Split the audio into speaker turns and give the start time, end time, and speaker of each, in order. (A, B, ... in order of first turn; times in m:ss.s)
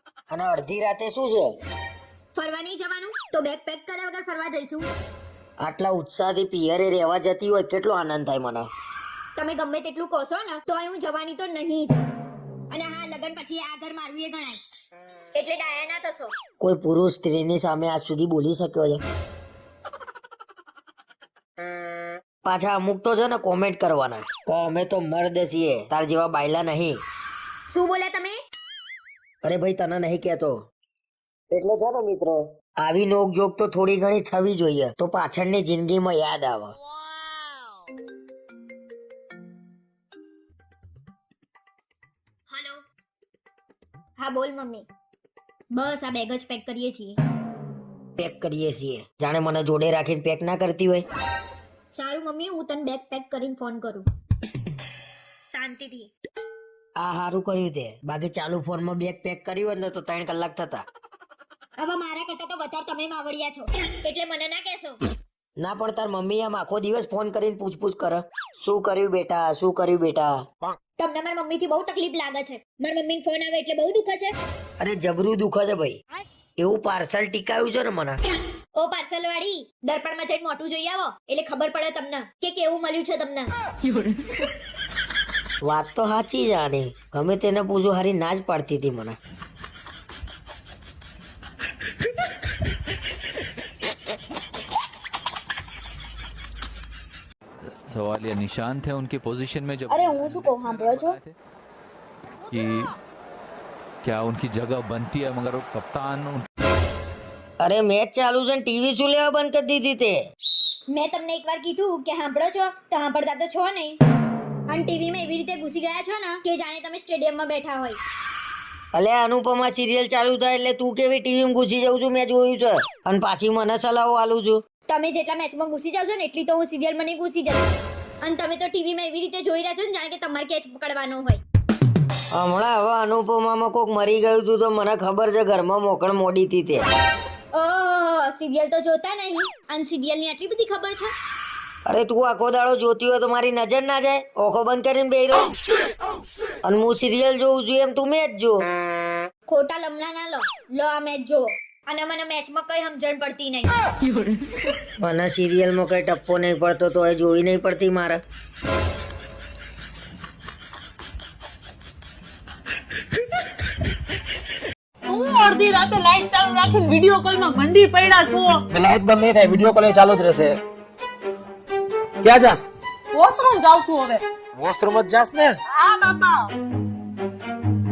0:00.3-0:01.6 A
0:02.4-0:04.9 B
0:05.6-0:08.7 A
0:09.4-0:12.0 B
0:12.7-0:14.6 B
0:15.4-0:16.3 B
0:16.6-0:19.0 A
0:22.4-0:27.0 A
0:27.7-0:28.4 B
0:29.4-0:30.7 A
0:31.5-0:36.7 A
0:42.5-0:42.8 B
0:44.2-0:44.9 B
0:45.7-0:47.2 B
0:48.2-0:51.1 A
0:51.9-0:54.0 B
0:55.5-0:56.1 B
0:57.0-1:00.8 A
1:01.8-1:05.0 B
1:05.6-1:10.4 A
1:11.0-1:14.3 B
1:14.8-1:16.0 A
1:16.6-1:18.2 A
1:18.7-1:23.5 B
1:23.9-1:24.1 C
1:25.6-1:29.2 A
1:37.6-1:41.3 C
1:39.9-1:41.2 B
1:42.5-1:42.9 C
1:44.0-1:46.5 C
1:47.6-1:50.2 A
1:50.9-1:54.0 B
1:54.7-1:58.0 B
1:58.9-2:04.6 A
2:04.9-2:07.6 B
2:08.2-2:11.4 B
2:12.3-2:16.9 A
2:17.5-2:21.1 B
2:21.9-2:25.5 A
2:26.6-2:28.6 A
2:29.5-2:33.7 B
2:34.0-2:34.6 C
2:35.0-2:38.2 A
2:45.1-2:48.6 D
2:48.7-2:50.6 E
2:52.2-2:52.7 E
2:53.1-2:54.2 D
2:54.6-2:55.6 E
2:55.7-2:56.5 D